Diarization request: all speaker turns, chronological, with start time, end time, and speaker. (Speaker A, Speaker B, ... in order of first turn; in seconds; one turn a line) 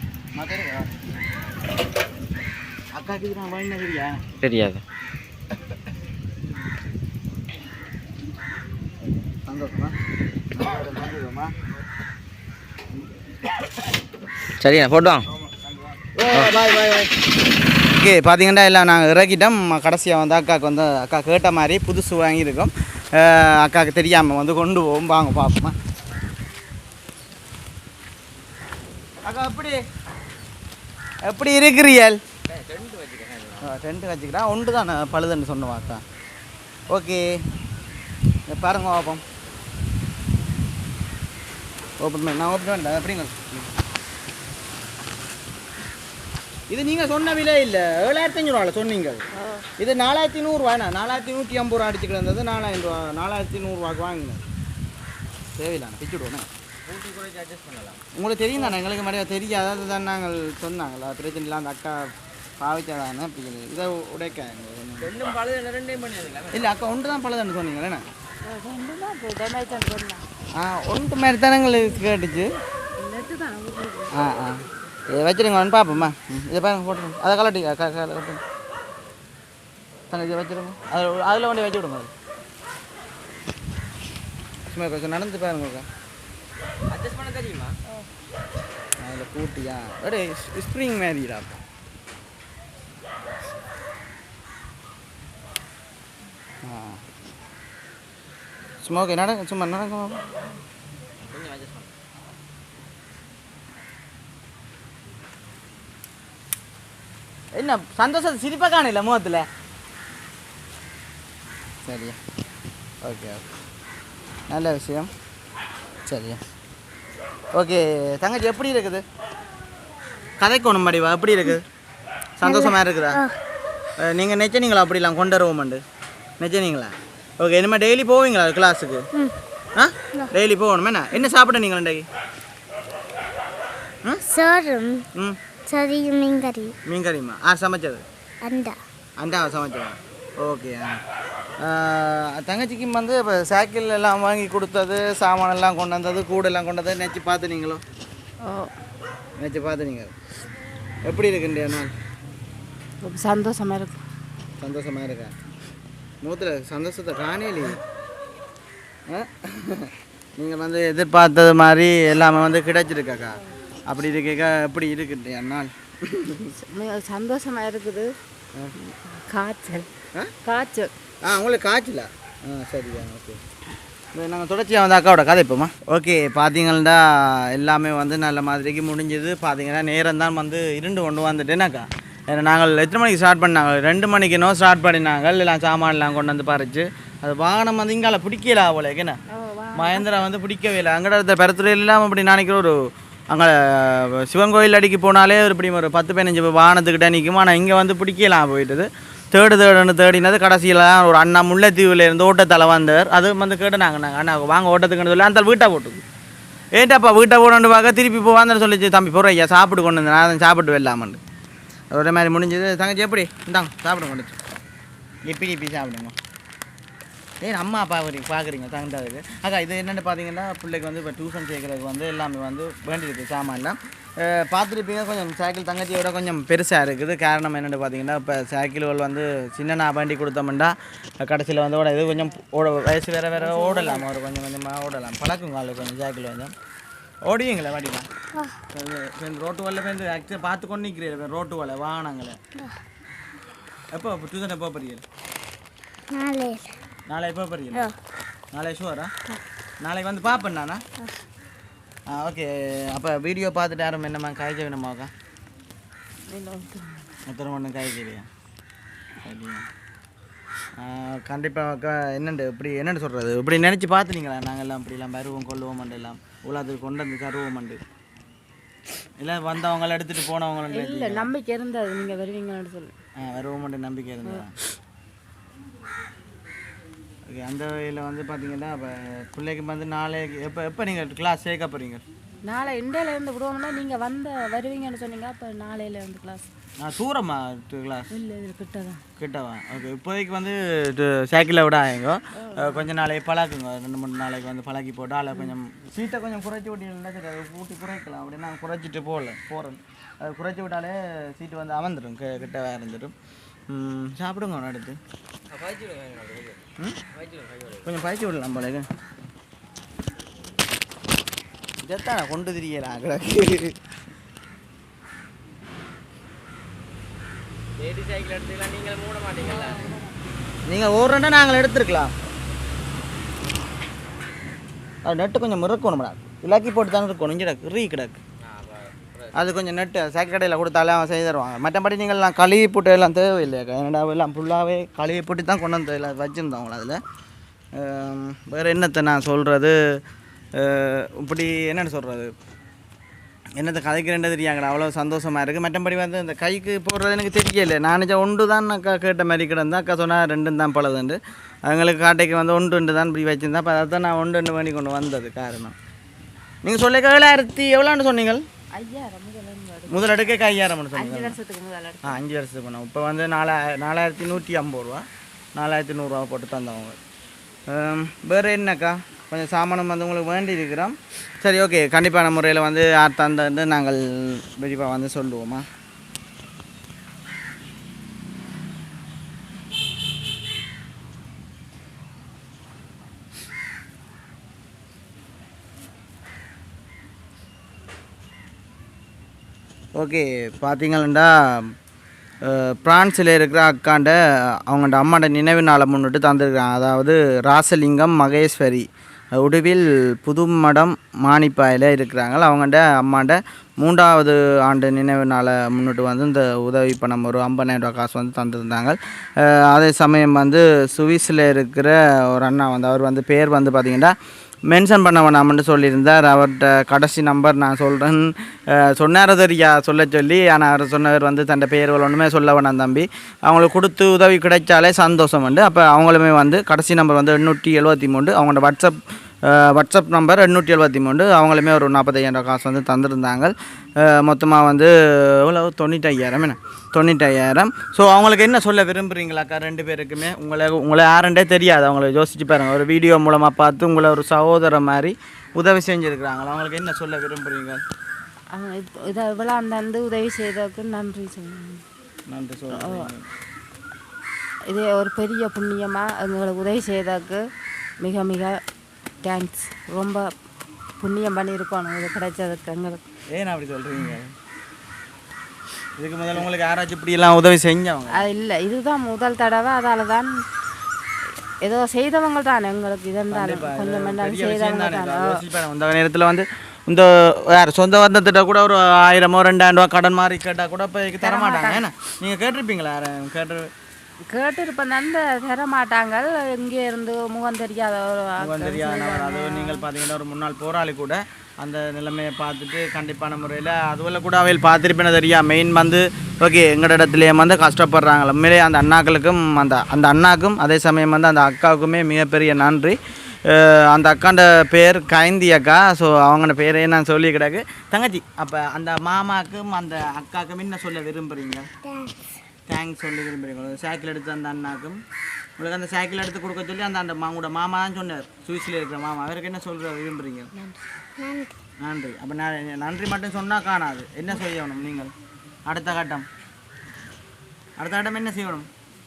Speaker A: 0.4-0.9
Speaker A: 2.9-4.2
Speaker B: 4.4-4.8
Speaker A: 9.3-10.0
Speaker A: 10.5-11.5
Speaker B: 14.6-15.3
Speaker A: 15.5-17.1
Speaker A: 17.9-25.8
Speaker A: 29.2-29.8
Speaker A: 31.2-32.2
Speaker B: 32.5-33.7
Speaker A: 33.6-36.0
Speaker A: 36.9-37.4
Speaker A: 38.5-39.2
Speaker A: 42.0-43.7
Speaker A: 46.7-49.2
Speaker C: 49.3-49.7
Speaker A: 49.8-54.5
Speaker A: 55.6-56.5
Speaker B: 56.9-58.0
Speaker A: 58.1-65.1
Speaker B: 65.0-66.7
Speaker A: 66.5-68.1
Speaker C: 68.5-70.2
Speaker A: 70.6-72.5
Speaker C: 73.0-74.1
Speaker A: 74.1-78.4
Speaker A: 80.1-82.1
Speaker A: 84.7-85.9
Speaker B: 86.9-87.8
Speaker A: 89.0-91.6
Speaker A: 96.6-97.0
Speaker A: 98.8-100.2
Speaker B: 101.2-101.9
Speaker A: 107.6-109.5
Speaker A: 111.8-112.2
Speaker A: 113.0-113.5
Speaker A: 114.5-115.1
Speaker A: 116.1-116.4
Speaker A: 117.5-119.0
Speaker A: 120.4-121.6
Speaker A: 122.4-123.2
Speaker D: 122.4-123.4
Speaker A: 124.0-125.8
Speaker A: 126.4-129.1
Speaker A: 129.8-132.1
Speaker D: 134.2-135.0
Speaker D: 135.7-136.7
Speaker A: 136.9-138.0
Speaker D: 138.4-138.8
Speaker A: 139.2-141.0
Speaker A: 141.6-147.8
Speaker C: 148.4-148.7
Speaker A: 149.4-150.1
Speaker A: 151.1-151.9
Speaker C: 153.0-154.0
Speaker A: 154.6-155.3
Speaker A: 156.2-157.8
Speaker A: 159.1-166.5
Speaker C: 166.5-168.2
Speaker C: 168.8-169.9
Speaker C: 170.4-170.9
Speaker A: 171.2-173.4
Speaker A: 174.1-189.2
Speaker C: 189.3-190.1
Speaker A: 189.8-192.8
Speaker A: 193.3-206.0
Speaker A: 206.8-211.2
Speaker A: 211.9-214.4
Speaker A: 215.3-216.2
Speaker A: 217.4-236.5
Speaker C: 233.4-234.1
Speaker A: 237.2-238.1
Speaker A: 238.7-242.4
Speaker A: 243.9-245.0
Speaker D: 246.1-246.7
Speaker A: 247.1-247.9
Speaker A: 248.5-249.1
Speaker A: 249.8-250.8
Speaker A: 252.1-255.1
Speaker C: 256.3-257.1
Speaker A: 257.3-258.3
Speaker A: 259.2-259.7
Speaker A: 260.8-267.8
Speaker A: 269.2-271.3
Speaker C: 270.7-272.9
Speaker A: 273.2-274.5
Speaker A: 277.3-282.0
Speaker C: 282.5-286.5
Speaker A: 286.8-288.1
Speaker C: 288.1-289.0
Speaker A: 289.2-303.1
Speaker C: 292.4-292.9
Speaker A: 303.7-305.0
Speaker B: 305.5-307.9
Speaker A: 307.8-308.9
Speaker A: 311.8-313.8
Speaker B: 317.8-319.9
Speaker C: 319.4-320.0
Speaker A: 320.7-322.1
Speaker A: 325.0-328.2
Speaker B: 328.5-329.3
Speaker A: 329.3-337.0
Speaker A: 337.8-340.0
Speaker A: 340.6-342.3
Speaker A: 343.6-355.8
Speaker A: 356.6-358.4
Speaker C: 358.7-360.4
Speaker A: 359.9-361.4
Speaker C: 360.9-362.2
Speaker A: 362.0-367.0
Speaker A: 367.7-375.7
Speaker A: 390.0-391.7
Speaker A: 392.4-414.1
Speaker A: 414.7-447.8
Speaker C: 448.5-451.8
Speaker A: 452.3-453.2
Speaker C: 452.7-453.1
Speaker C: 454.7-457.5
Speaker C: 458.0-458.6
Speaker C: 459.2-460.3
Speaker C: 461.0-463.0
Speaker A: 463.3-464.3
Speaker A: 466.0-468.3
Speaker C: 468.1-470.4
Speaker C: 471.6-475.4
Speaker A: 473.3-483.7
Speaker C: 481.2-481.9
Speaker C: 484.3-489.9
Speaker A: 488.4-511.7
Speaker D: 511.8-512.3
Speaker A: 512.7-515.0
Speaker A: 515.6-520.5
Speaker C: 520.5-520.8
Speaker D: 521.2-521.5
Speaker A: 521.8-525.1
Speaker A: 525.7-526.3
Speaker A: 527.8-528.7